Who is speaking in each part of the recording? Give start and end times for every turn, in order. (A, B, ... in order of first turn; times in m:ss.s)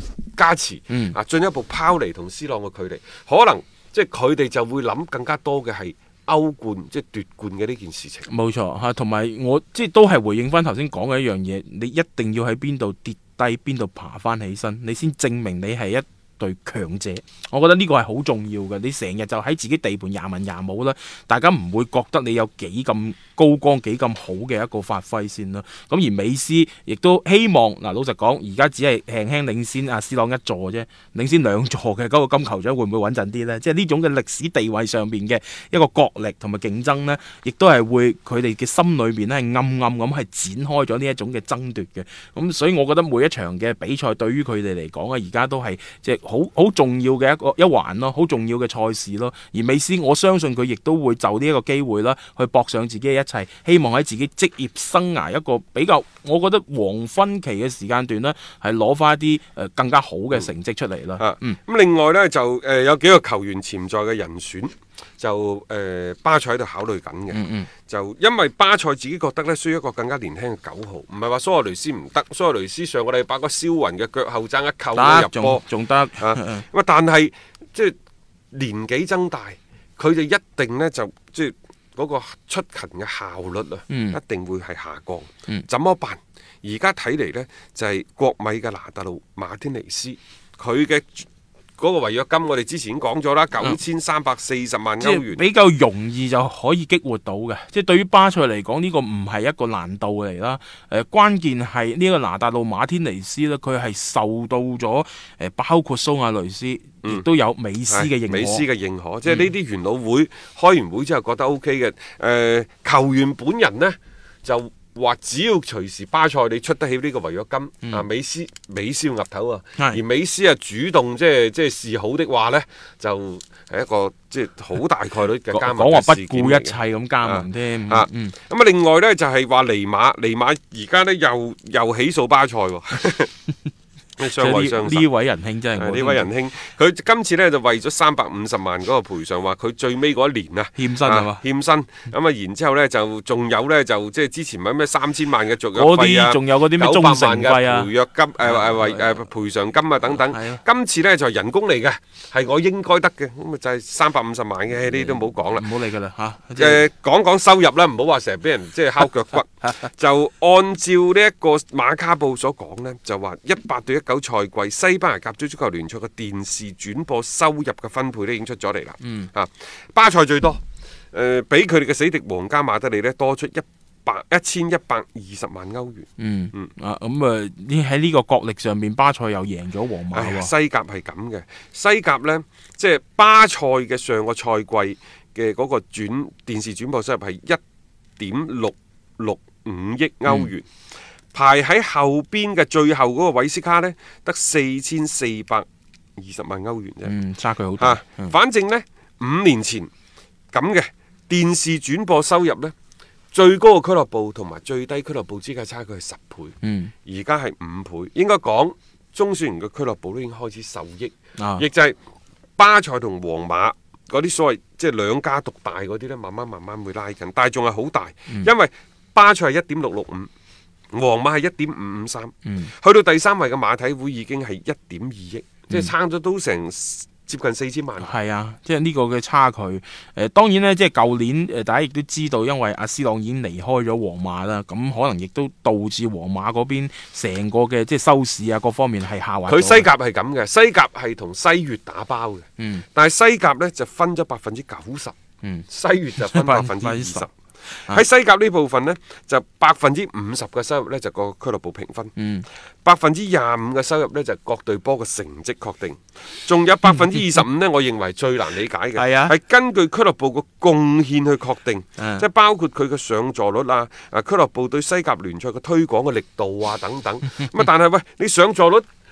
0:00.4-0:08.3 A
0:00.9-0:01.2 B
0:08.3-1:01.6 B
1:01.2-1:15.6 A
1:07.3-1:07.7 B
1:14.9-1:16.6 B
1:16.2-1:18.0 A
1:18.5-1:31.3 A
1:23.9-1:24.2 B
1:31.8-1:35.4 A
1:35.0-1:48.6 B
1:47.9-2:13.3 A
2:05.5-2:08.4 B
2:14.2-2:15.1 A
2:14.2-2:16.3 B
2:15.8-2:35.7 A
2:20.8-2:21.4 B
2:25.8-2:27.9 B
2:28.4-2:29.2 B
2:30.1-2:30.6 B
2:34.9-2:36.8 B
2:36.6-2:50.6 A
2:49.0-2:49.3 B
2:51.1-2:56.7 A
2:56.2-3:00.5 B
3:00.1-3:07.6 A
3:08.2-3:10.7 A
3:11.3-3:15.7 A
3:16.2-3:17.2 A
3:17.0-3:18.3 B
3:17.8-3:19.9 A
3:20.5-3:22.7 A
3:23.3-3:26.5 A
3:26.6-3:26.9 B
3:27.1-3:32.0 A
3:31.4-3:31.7 B
3:32.6-3:40.3 A
3:40.9-3:48.2 A
3:42.4-3:42.7 B
3:48.0-3:59.9 B
3:59.5-4:05.1 A
4:02.6-4:02.8 B
4:05.7-4:07.3 A
4:06.2-4:07.3 B
4:07.8-4:12.1 A
4:12.2-4:12.5 B
4:12.8-4:28.8 A
4:19.0-4:19.3 B
4:22.0-4:22.2 B